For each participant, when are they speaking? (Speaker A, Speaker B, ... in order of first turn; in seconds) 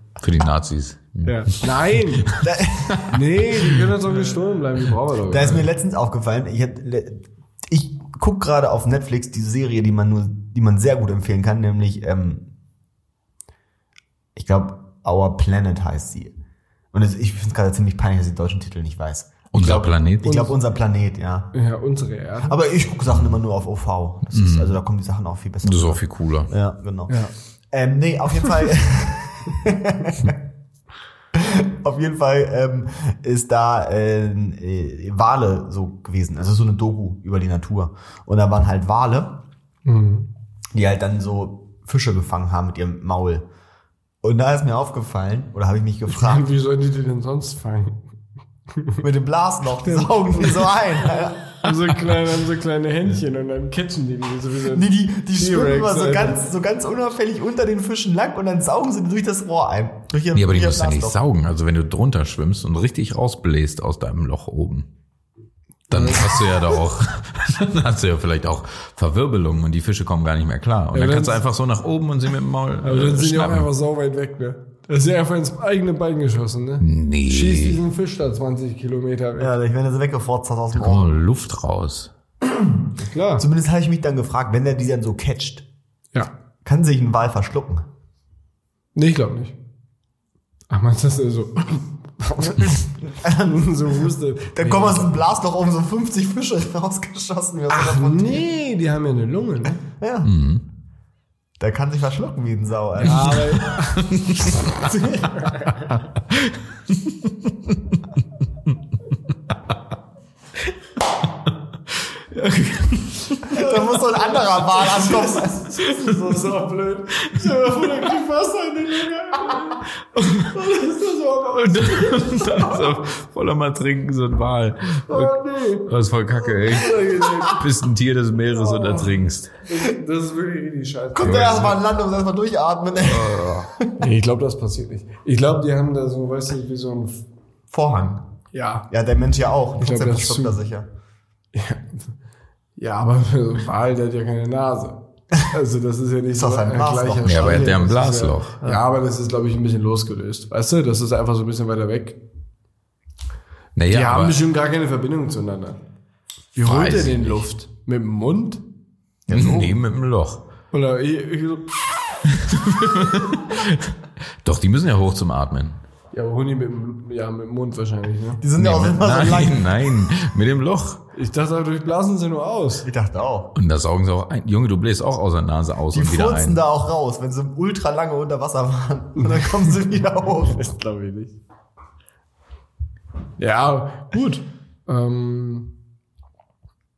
Speaker A: 0.2-3.1, 19.5-20.4, 24.3-24.7, 25.6-26.5, 60.3-64.9, 65.9-73.7, 76.8-77.8, 80.7-82.1, 100.2-100.6, 103.3-104.6, 112.3-113.1, 117.3-117.8, 120.2-120.6, 121.7-129.6, 131.2-131.8, 133.0-133.7, 147.2-148.7, 153.8-154.4, 156.6-157.4, 159.3-160.4, 162.3-165.8, 168.6-171.0, 173.6-176.6
Speaker B: 1.2-2.4, 3.0-5.7, 20.2-20.6, 21.5-22.6, 27.1-27.3, 39.9-40.3, 46.1-48.0, 48.7-49.0, 49.8-56.4, 65.9-66.6, 70.9-71.4, 72.8-79.5, 83.0-83.5, 89.0-89.6, 90.7-95.2, 97.7-99.8, 103.0-106.0, 113.3-119.9, 120.5-122.6, 125.1-125.9, 126.5-127.6, 128.5-131.8, 134.0-137.2, 138.5-138.9, 139.8-140.6, 141.5-142.1, 142.8-152.2, 153.9-155.8, 156.6-158.7, 160.7-162.0, 166.1-168.4, 171.1-172.9, 179.2-179.8, 180.4-181.4, 183.4-185.8
Speaker C: 2.4-3.1, 5.3-12.4, 14.4-16.3, 16.9-21.5, 22.4-30.4, 31.3-39.4, 40.7-43.5, 44.2-46.5, 49.0-51.5, 54.7-61.2, 79.4-81.1, 82.5-85.7, 86.6-87.9, 93.1-93.7, 94.5-98.4, 100.0-100.3, 101.6-103.7, 113.5-115.8, 127.1-127.5, 131.1-133.9, 137.7-138.2, 138.9-140.9, 146.3-147.8, 159.3-159.8, 168.4-169.7, 172.8-173.5, 175.9-180.6